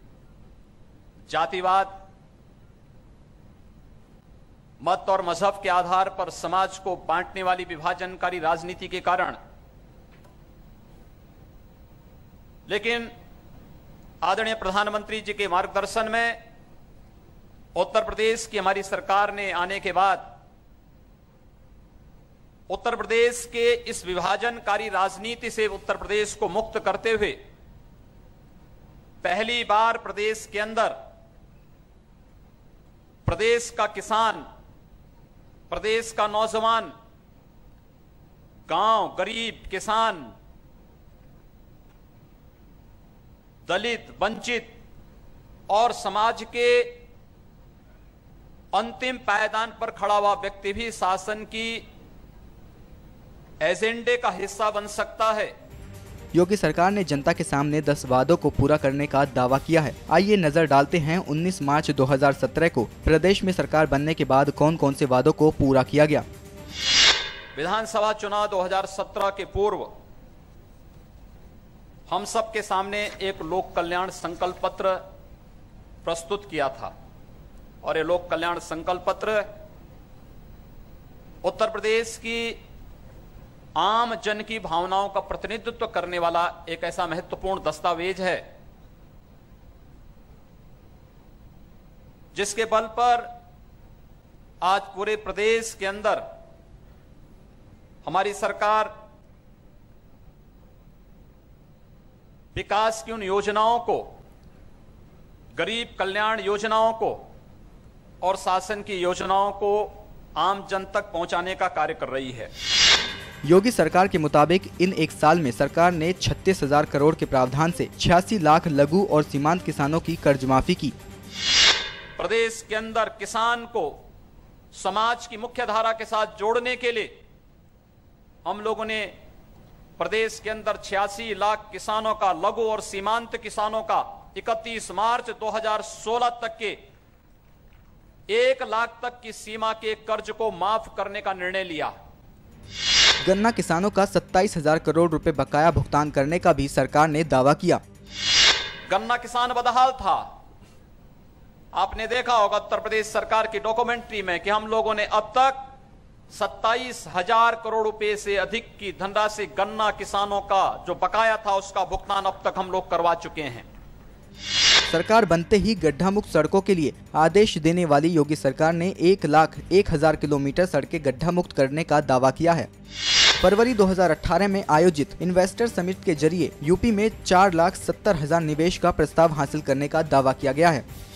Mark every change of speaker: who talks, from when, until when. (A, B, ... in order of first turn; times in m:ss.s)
0:01.3-0:01.9 A
0:04.8-0:09.4 A
0:12.7-0:13.1 A
0:14.2-0:16.4 A
0:17.7-0:20.3 A
0:22.7-0:27.4 A
0:29.2-0:31.0 A
0:33.2-0:34.4 A
0:35.7-0:36.9 A
0:38.7-0:40.3 A
0:43.6-0:44.7 A
0:45.7-0:47.0 A
0:48.7-0:51.8 A
0:53.6-0:55.5 A
0:56.3-1:06.2 B
1:07.5-1:09.9 A
1:12.1-1:15.0 A
1:16.0-1:16.9 A
1:17.8-1:19.5 A
1:21.4-1:22.6 A
1:23.8-1:28.4 A
1:32.3-1:33.3 A
1:34.6-1:36.2 A
1:38.0-1:38.9 A
1:42.5-1:44.1 A
1:45.5-1:47.2 A
1:48.2-1:52.5 A
1:53.4-2:00.9 B
2:02.2-2:04.0 A
2:04.7-2:07.1 A
2:08.4-2:09.1 A
2:10.0-2:16.8 A
2:18.3-2:21.9 A
2:23.2-2:27.8 B
2:28.9-2:30.3 A
2:31.7-2:35.6 A
2:36.3-2:43.6 A
2:44.9-2:52.7 B
2:53.4-3:00.8 B